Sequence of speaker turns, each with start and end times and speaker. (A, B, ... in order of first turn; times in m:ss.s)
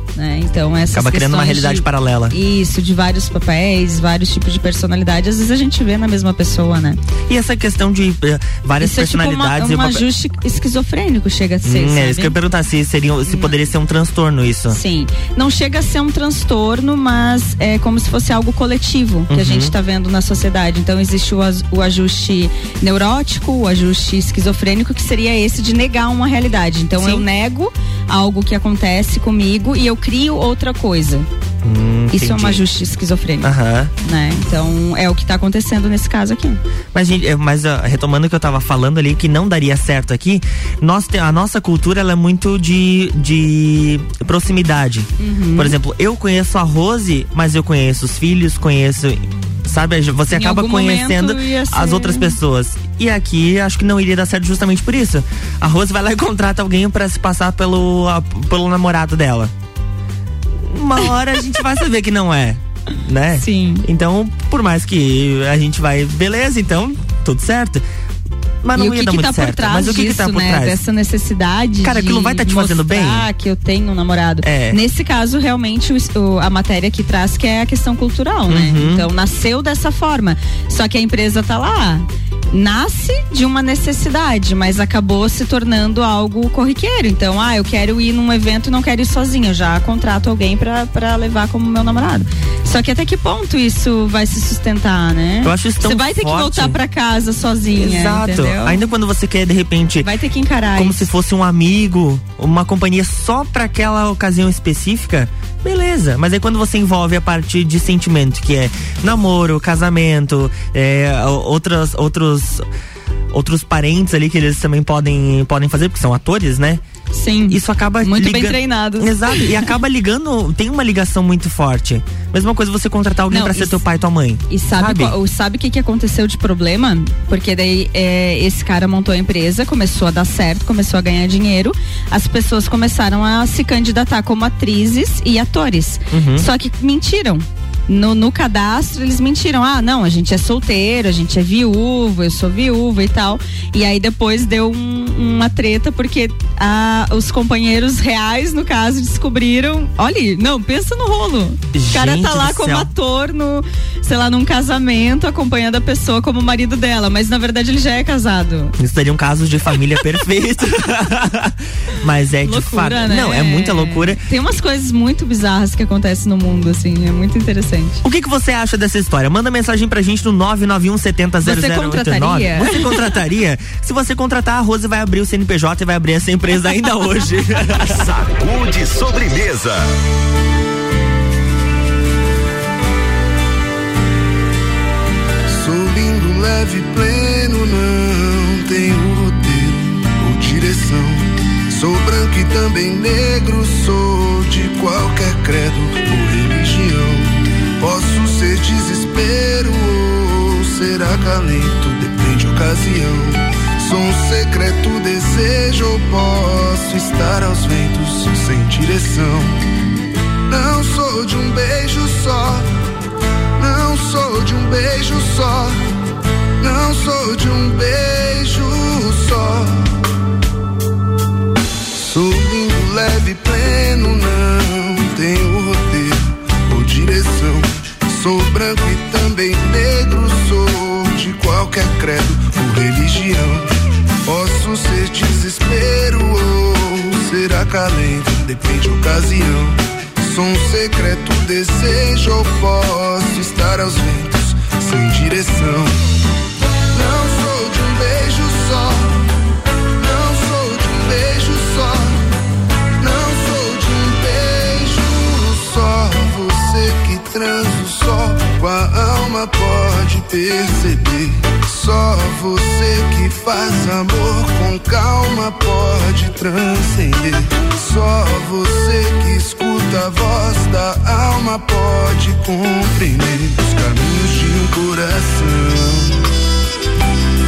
0:00.1-0:07.0 A
0:00.9-0:02.3 B
0:07.3-0:10.0 B
0:08.8-0:12.4 A
0:11.6-0:14.8 B
0:13.2-0:13.6 A
0:14.7-0:31.3 A
0:19.3-0:19.7 B
0:27.0-0:27.2 B
0:31.6-0:32.6 B
0:32.1-0:33.5 A
0:33.4-0:33.9 B
0:34.0-0:36.6 A
0:36.9-0:59.5 B
0:45.2-0:45.8 A
0:50.3-0:52.4 A
1:00.6-1:07.8 B
1:03.4-1:03.8 A
1:08.6-1:10.8 B
1:08.8-1:38.8 A
1:11.8-1:13.3 B
1:14.4-1:14.8 B
1:18.5-1:19.0 B
1:35.4-1:36.8 B
1:37.8-1:40.1 B
1:40.0-1:41.0 A
1:40.7-1:52.6 B
1:53.3-1:56.8 B
1:57.1-1:59.7 A
1:57.5-2:05.1 B
2:03.3-2:03.8 A
2:04.5-2:38.7 A
2:16.1-2:16.5 B
2:31.7-2:32.9 B
2:38.8-2:44.2 B
2:42.4-2:48.0 A
2:48.0-2:58.0 B
2:51.4-2:53.0 A
2:57.8-2:59.9 C
3:05.5-3:29.6 D
3:30.5-3:32.7 D
3:33.6-3:35.8 D
3:36.6-3:39.9 D
3:41.9-4:06.0 D
4:06.9-4:09.2 D
4:10.0-4:12.2 D
4:13.0-4:36.2 D